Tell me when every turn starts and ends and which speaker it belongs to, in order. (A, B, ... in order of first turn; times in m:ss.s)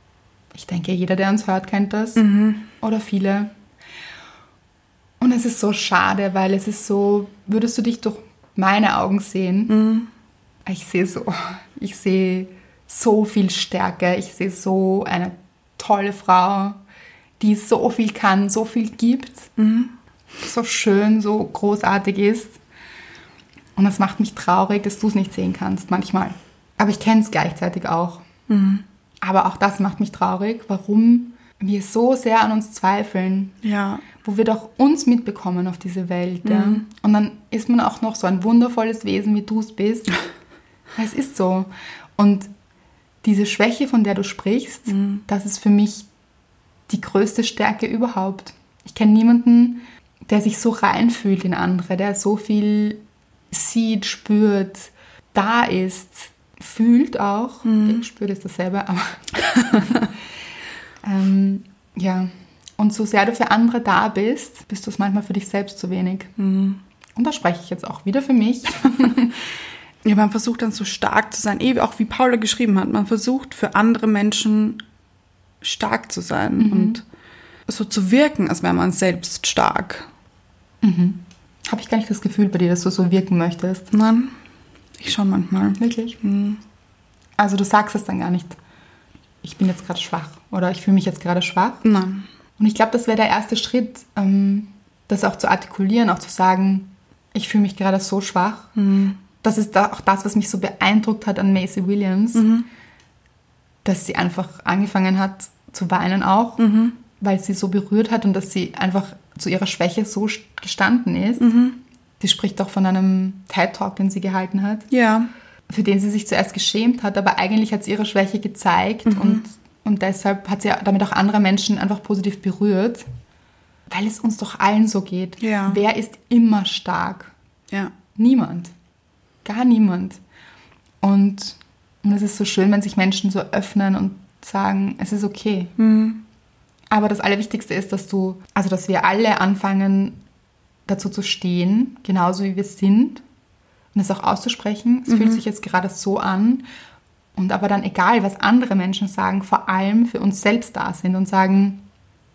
0:00.5-0:02.2 A
0:02.2-0:02.7 B
0:02.8-0:03.5 A
0:05.2-0:09.8 A
0:09.7-0:10.1 B
0:10.6-0:16.8 A
0:17.4-0:19.5 A
0:19.6-0:19.9 B
0:20.4-0:22.6 A
0:23.8-0:28.2 A
0:28.5-0:28.8 B
0:29.2-0:33.6 A
0:33.6-0:34.0 B
0:34.2-0:40.2 A
0:36.4-0:36.8 B
0:41.0-0:42.5 A
0:43.2-0:46.1 A
0:44.9-0:45.2 B
0:46.9-1:00.1 A
0:57.6-0:58.0 B
1:01.0-1:06.3 A
1:06.4-1:06.8 B
1:07.2-1:09.4 A
1:10.0-1:14.8 B
1:15.6-1:17.0 B
1:16.6-1:17.0 A
1:17.7-1:20.1 B
1:20.8-1:23.9 A
1:23.9-1:24.3 B
1:25.0-1:26.6 B
1:25.8-1:26.2 A
1:27.4-1:28.6 A
1:29.4-1:31.8 A
1:31.8-1:32.2 B
1:32.6-1:38.7 A
1:38.8-1:39.2 B
1:39.4-1:42.5 A
1:42.3-1:42.6 B
1:43.8-1:46.6 A
1:46.6-1:47.0 B
1:47.2-1:51.5 A
1:51.4-1:51.8 B
1:52.2-1:54.9 A
1:54.9-1:55.3 B
1:55.7-2:03.0 A
1:59.0-1:59.4 B
2:03.9-2:07.3 A
2:05.4-2:05.8 B
2:08.1-2:08.7 A
2:09.4-2:10.2 A
2:11.0-2:15.7 A
2:15.8-2:16.2 B
2:16.9-2:20.2 A
2:20.9-2:23.2 A
2:23.9-2:26.6 A
2:25.1-2:25.4 B
2:27.4-2:31.8 A